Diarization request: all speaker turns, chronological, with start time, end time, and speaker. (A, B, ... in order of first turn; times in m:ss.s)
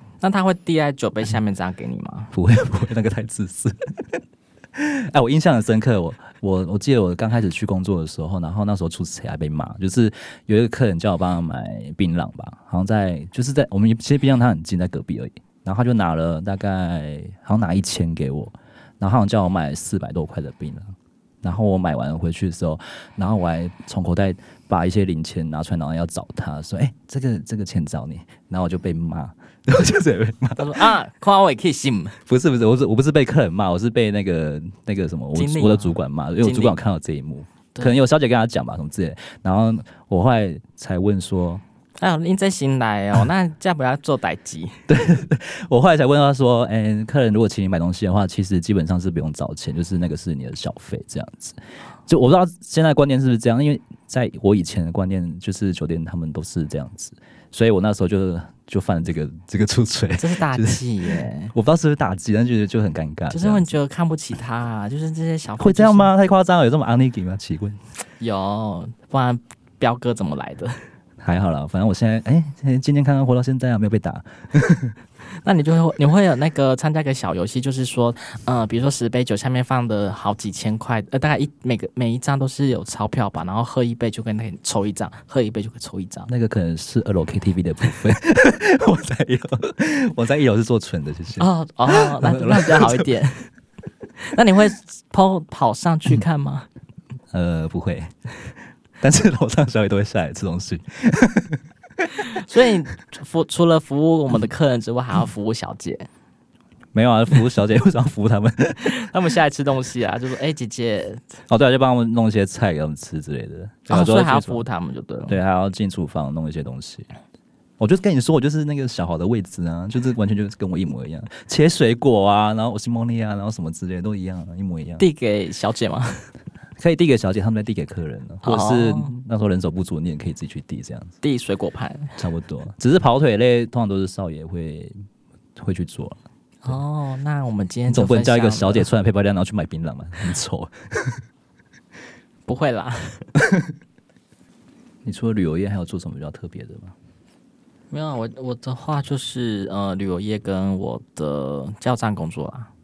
0:00.2-0:02.3 A
0:02.3-0:04.2 B
0:04.8-0:30.9 B
0:30.6-0:32.2 A
0:32.3-0:41.6 B
0:35.3-0:36.8 A
0:42.0-0:44.8 A
0:44.9-1:00.8 B
1:00.2-1:01.5 A
1:01.5-1:03.7 B
1:03.3-1:06.1 A
1:05.6-1:07.8 B
1:08.2-1:10.8 A
1:11.2-1:15.0 B
1:15.4-1:26.3 A
1:26.3-1:33.1 B
1:31.4-1:33.5 A
1:34.2-1:36.7 A
1:37.3-1:38.1 B
1:39.0-1:42.1 B
1:42.3-1:46.1 A
1:46.9-1:49.0 B
1:48.8-1:51.4 A
1:51.5-1:54.6 B
1:53.9-1:55.4 A
1:55.3-1:57.1 B
1:57.8-2:05.0 B
2:05.0-2:06.3 A
2:06.8-2:11.1 B
2:08.4-2:09.1 A
2:11.2-2:12.1 A
2:12.2-2:14.9 B
2:15.6-2:16.8 B
2:16.6-2:18.9 A
2:17.9-2:21.2 B
2:22.4-2:23.2 A
2:25.0-2:26.9 B
2:27.9-2:32.7 A